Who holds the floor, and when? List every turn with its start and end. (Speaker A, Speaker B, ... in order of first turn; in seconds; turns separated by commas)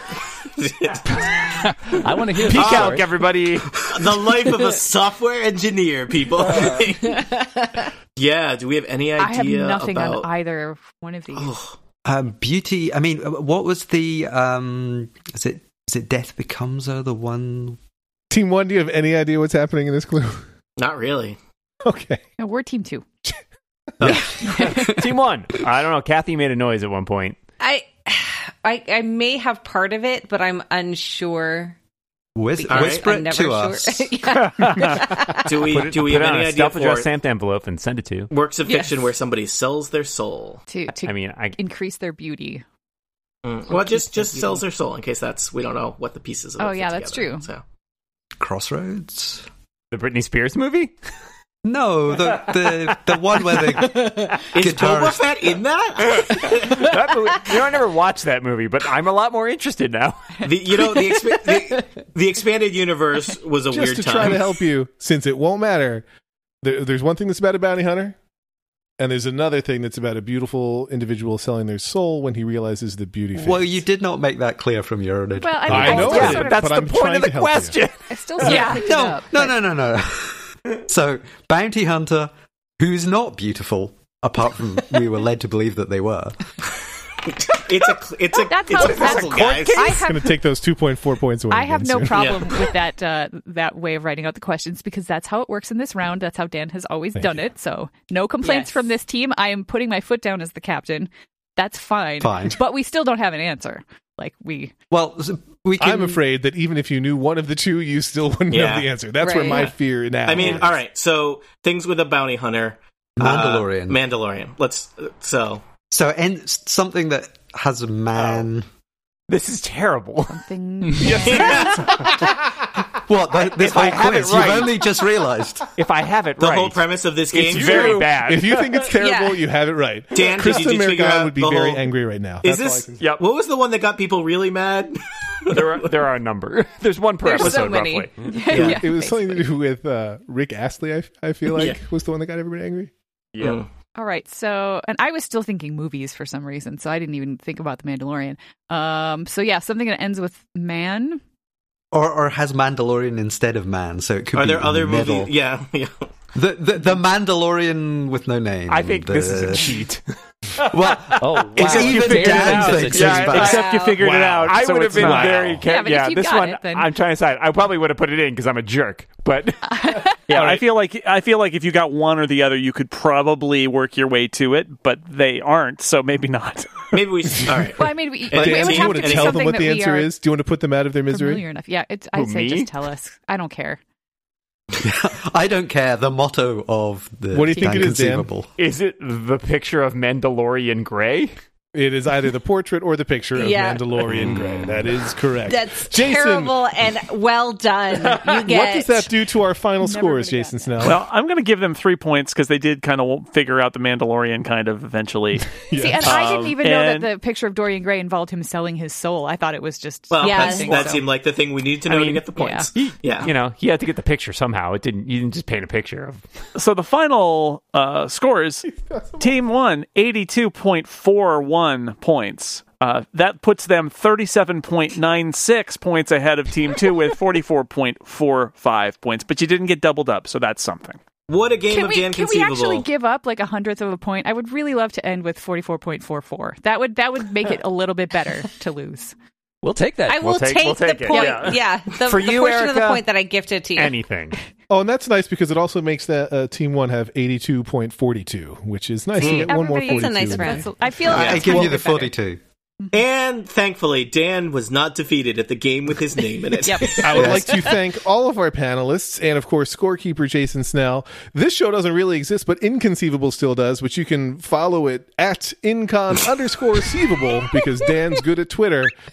Speaker A: 0.5-1.5, Speaker B: 1.8-3.2, Speaker C: 2.4-4.0, Speaker A: 2.6-3.0, Speaker A: 3.8-7.2, Speaker D: 7.0-7.9, Speaker A: 8.2-10.3, Speaker E: 9.2-11.5, Speaker A: 11.3-11.7, Speaker F: 12.1-17.8, Speaker G: 18.3-20.4, Speaker A: 20.8-21.4, Speaker G: 21.8-22.2, Speaker E: 22.4-23.1, Speaker A: 24.0-24.3, Speaker C: 24.1-27.4, Speaker E: 24.4-24.9, Speaker D: 27.6-31.8, Speaker F: 32.4-34.1, Speaker D: 32.5-35.6, Speaker A: 32.7-33.1, Speaker C: 34.4-38.3, Speaker A: 35.5-37.1, Speaker A: 38.3-40.6, Speaker E: 40.7-42.6, Speaker C: 41.0-41.6, Speaker A: 43.4-47.6, Speaker E: 43.8-44.6, Speaker E: 46.6-47.5, Speaker F: 48.4-49.5, Speaker C: 49.9-50.9, Speaker F: 51.6-55.5, Speaker C: 52.4-54.5, Speaker A: 54.5-57.0, Speaker C: 56.1-60.5, Speaker A: 60.4-64.5, Speaker G: 63.7-66.0, Speaker G: 66.6-68.2, Speaker G: 69.0-73.8, Speaker F: 73.3-76.4, Speaker E: 75.4-76.8, Speaker G: 75.7-77.8, Speaker C: 75.7-78.8, Speaker E: 78.1-79.5, Speaker D: 78.5-79.1, Speaker F: 78.5-86.4, Speaker A: 87.3-90.0, Speaker E: 88.5-90.4, Speaker C: 88.7-90.1, Speaker G: 90.0-92.2, Speaker E: 91.5-104.7, Speaker A: 92.1-92.7, Speaker G: 97.2-97.5, Speaker D: 98.4-98.8, Speaker F: 102.2-102.6, Speaker F: 104.9-106.2, Speaker G: 105.8-110.8, Speaker A: 108.5-108.9, Speaker D: 109.2-109.7, Speaker A: 110.3-115.7, Speaker F: 113.2-114.0, Speaker F: 115.9-118.7, Speaker C: 119.3-120.5, Speaker E: 120.3-122.0, Speaker C: 121.0-122.2, Speaker G: 121.0-121.9, Speaker A: 121.2-121.9, Speaker F: 122.9-125.7, Speaker C: 123.4-124.9, Speaker C: 125.8-128.9, Speaker A: 126.4-128.1, Speaker G: 127.5-133.0, Speaker D: 128.9-129.4, Speaker A: 130.1-131.9, Speaker A: 132.4-135.9, Speaker C: 133.0-133.2, Speaker C: 135.5-138.6, Speaker E: 137.2-139.5, Speaker G: 138.5-142.9, Speaker A: 138.5-138.8, Speaker C: 143.3-143.6, Speaker A: 143.4-143.7, Speaker E: 144.0-151.2, Speaker F: 151.9-155.3, Speaker A: 154.3-156.1, Speaker F: 156.3-159.8, Speaker C: 158.7-163.9, Speaker F: 160.7-163.7, Speaker B: 161.2-163.5, Speaker H: 161.8-165.6, Speaker D: 163.4-164.0, Speaker G: 164.0-165.6, Speaker C: 164.4-170.6, Speaker E: 165.7-166.9, Speaker E: 169.7-170.2, Speaker H: 170.3-176.9, Speaker G: 170.4-170.6, Speaker A: 176.9-179.6, Speaker E: 177.8-180.1, Speaker G: 178.3-181.4, Speaker E: 181.1-183.8, Speaker C: 182.1-182.7, Speaker F: 184.7-188.5, Speaker G: 187.3-188.3, Speaker E: 187.5-187.9, Speaker C: 188.6-191.3, Speaker G: 191.7-196.6, Speaker D: 193.3-194.1, Speaker B: 194.1-194.9, Speaker D: 195.5-199.1, Speaker C: 198.1-198.4, Speaker G: 198.4-201.0, Speaker E: 199.8-200.8, Speaker H: 200.8-207.1, Speaker G: 205.7-206.3, Speaker E: 205.8-211.0, Speaker A: 210.1-213.3, Speaker D: 210.2-210.8, Speaker C: 210.7-211.0, Speaker C: 211.9-212.2, Speaker E: 212.3-212.7, Speaker C: 212.8-216.2, Speaker H: 216.6-218.7, Speaker G: 218.7-219.4, Speaker H: 219.2-231.0, Speaker A: 231.3-232.9, Speaker E: 231.7-239.2, Speaker B: 239.6-241.3, Speaker D: 240.1-244.0, Speaker C: 240.2-243.1, Speaker C: 243.8-244.4, Speaker G: 244.7-250.7, Speaker A: 249.2-249.5, Speaker E: 249.2-252.1, Speaker D: 249.2-250.7, Speaker F: 251.1-252.4, Speaker A: 251.1-251.7, Speaker A: 252.9-257.4, Speaker E: 256.6-257.7, Speaker G: 257.0-268.9, Speaker F: 257.1-257.6